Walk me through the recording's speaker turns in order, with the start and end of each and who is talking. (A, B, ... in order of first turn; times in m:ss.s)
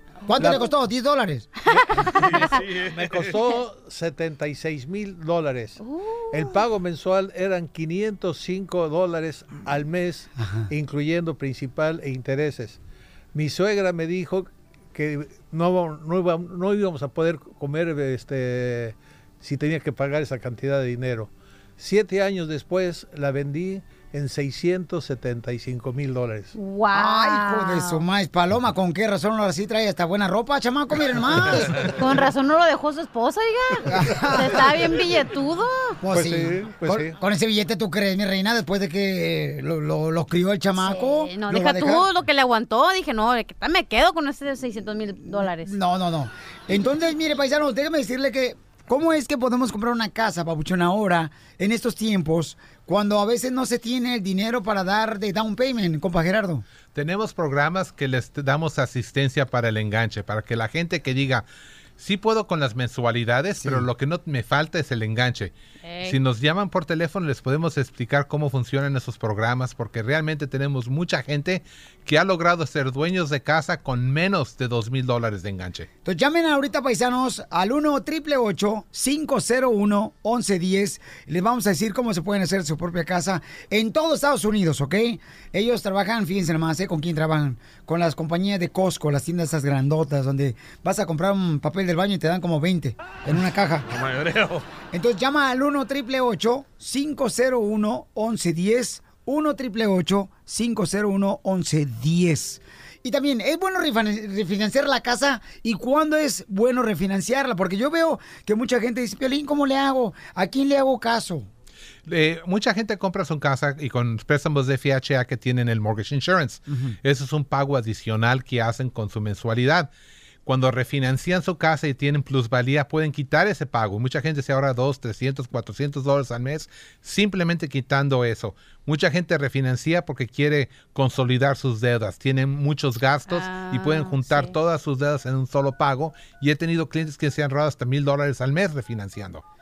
0:00.3-0:01.5 A
0:00.4-0:00.6 B
0:01.7-0:02.4 C
0:01.7-0:12.8 B
0:02.2-0:03.4 D
0:05.8-0:06.6 C
0:10.4-0:10.7 A
0:13.3-0:26.6 B
0:26.5-0:28.0 C
0:26.9-0:31.9 A
0:31.9-0:36.0 C
0:33.9-0:34.8 A
0:36.0-0:42.1 A
0:36.1-0:37.2 B
0:40.8-0:45.8 C
0:45.2-0:56.6 A
0:56.9-1:01.4 E
1:02.0-1:15.9 E
1:03.6-1:03.9 A
1:05.8-1:06.2 C
1:16.0-1:33.9 A
1:33.9-1:34.6 D
1:34.9-1:51.5 A
1:52.1-1:59.9 E
1:56.7-1:57.0 A
2:00.4-2:19.4 E
2:13.3-2:14.6 C